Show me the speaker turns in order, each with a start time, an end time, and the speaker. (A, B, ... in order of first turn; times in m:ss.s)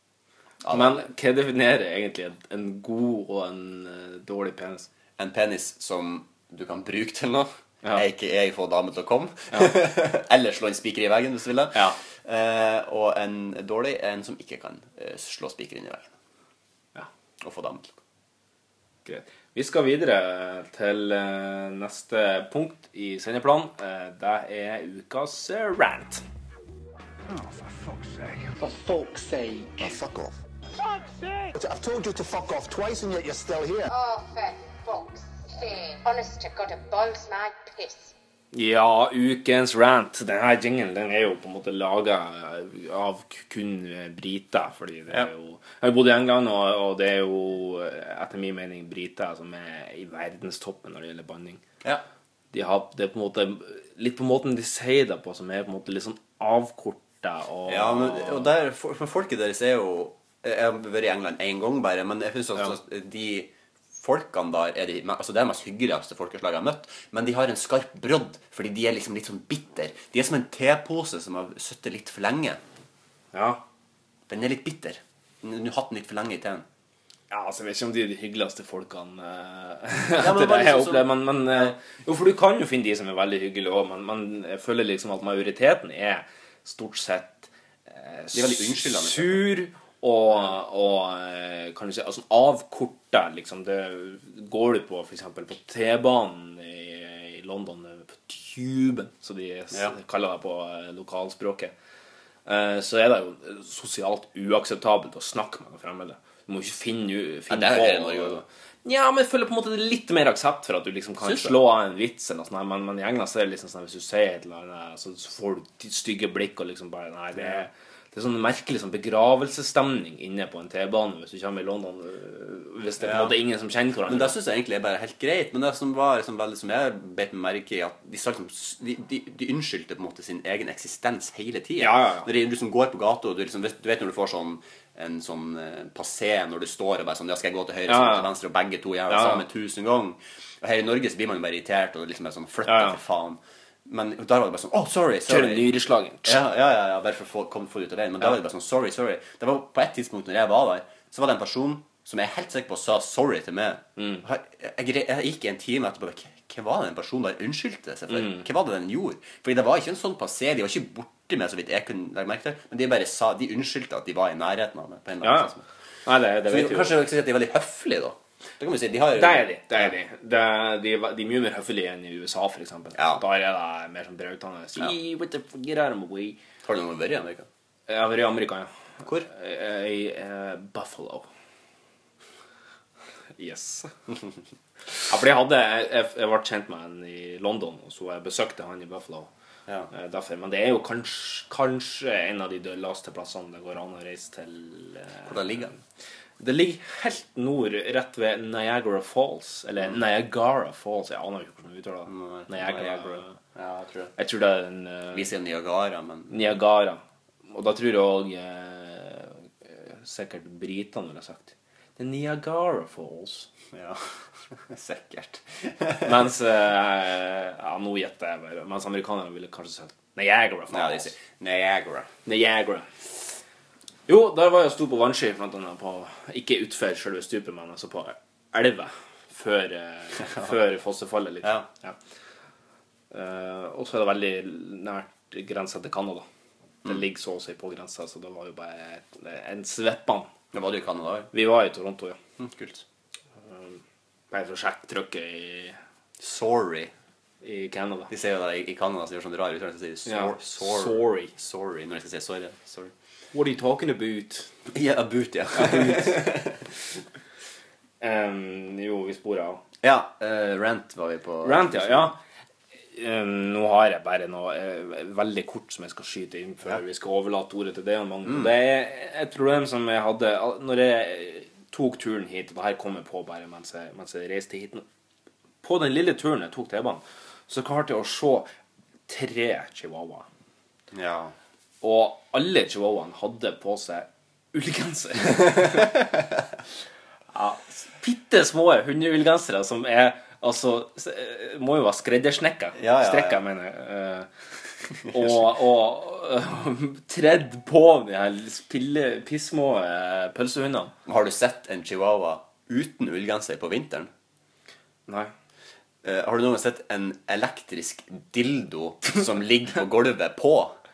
0:00.6-0:01.1 A
0:00.7-0:04.9 B
0:05.2-0:16.1 A
0:17.4-0:18.0 A
0:19.1-0:26.2 B
0:27.3-0:33.9 C
0:33.9-0:38.1 D
0:38.5-0:51.6 B
0:52.5-0:58.5 B
0:57.7-1:12.6 A
1:13.3-1:13.6 B
1:14.3-1:16.6 A
1:17.3-1:41.7 B
1:20.2-1:21.7 A
1:28.3-1:29.5 A
1:42.5-2:04.4 B
1:47.5-1:48.4 A
1:51.2-1:51.6 A
1:57.4-1:57.7 A
2:03.0-2:03.4 A
2:04.1-2:25.7 A
2:11.8-2:12.3 B
2:17.9-2:18.3 B
2:19.1-2:19.4 B
2:22.7-2:23.0 B
2:25.3-2:26.4 B
2:26.2-2:45.7 A
2:34.0-2:34.2 B
2:38.1-2:38.5 B
2:45.2-2:45.5 B
2:46.1-2:47.0 B
2:46.5-2:49.9 A
2:49.2-2:56.4 B
2:53.0-2:53.2 A
2:56.6-2:57.5 A
2:57.9-2:58.7 B
2:59.2-3:01.3 B
3:03.4-3:03.9 B
3:05.0-3:09.3 B
3:09.9-3:15.7 B
3:15.3-3:15.7 A
3:16.4-3:23.4 B
3:22.1-3:24.2 A
3:24.2-3:25.3 B
3:25.1-3:26.5 A
3:26.3-3:33.5 B
3:33.7-3:36.2 A
3:36.0-3:41.1 B
3:40.7-3:42.1 A
3:42.2-3:42.9 B
3:44.1-3:52.0 B
3:53.1-3:56.2 B
3:56.8-4:00.3 B
4:00.5-4:01.3 A
4:01.3-4:02.2 B
4:02.4-4:02.8 A
4:03.4-4:03.8 B
4:04.3-4:05.8 B
4:06.2-4:06.9 A
4:07.4-4:08.1 B
4:08.1-4:12.9 A
4:10.1-4:11.3 B
4:13.3-4:14.5 B
4:14.7-4:16.7 A
4:15.5-4:16.3 B
4:18.0-4:19.6 B
4:19.8-4:22.1 A
4:21.4-4:22.2 B
4:22.9-4:34.8 B
4:28.3-4:28.5 A
4:35.6-4:38.5 B
4:39.1-4:40.3 B
4:40.9-4:41.3 A
4:41.8-4:46.0 B
4:47.3-4:54.3 B
4:52.8-4:53.4 A
4:55.1-5:00.9 B
4:55.1-4:55.4 A
5:01.1-5:04.1 A
5:05.1-5:05.3 B
5:06.0-5:10.8 A